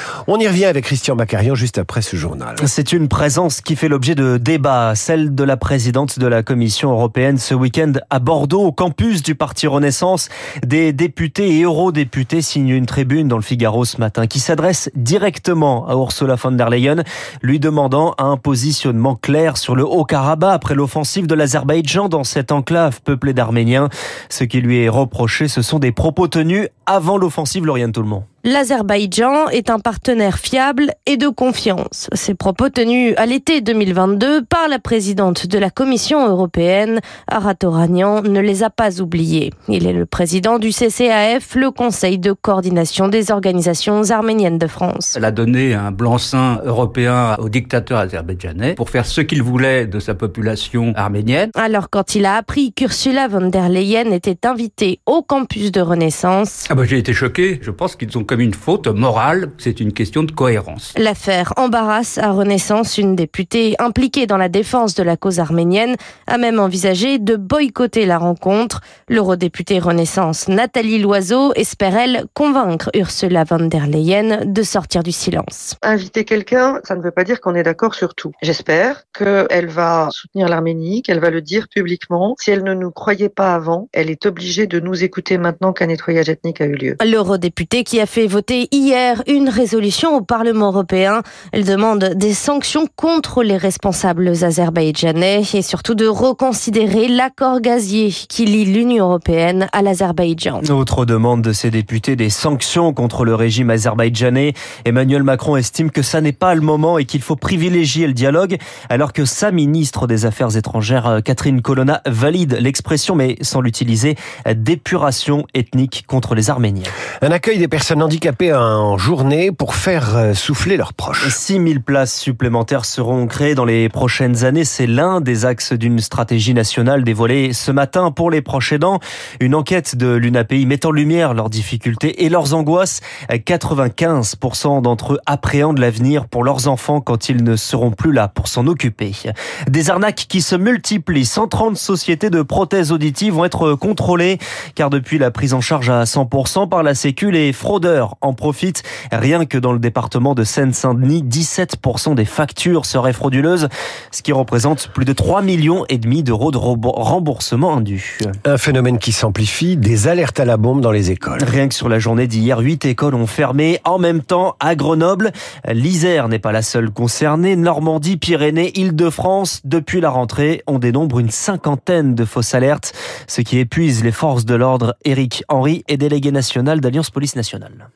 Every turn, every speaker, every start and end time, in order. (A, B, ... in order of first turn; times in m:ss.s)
0:00.3-0:02.7 A
0:02.6-0:28.2 B
0:28.4-0:45.2 C
0:45.2-0:51.5 D
0:51.5-0:56.7 C
0:56.7-1:00.9 D
1:00.9-1:15.7 C
1:15.8-1:27.0 E
1:27.0-1:40.6 C
1:40.6-1:56.9 B
1:57.2-2:01.4 A
2:01.2-2:38.4 B
2:38.4-2:41.5 A
2:41.4-2:57.9 B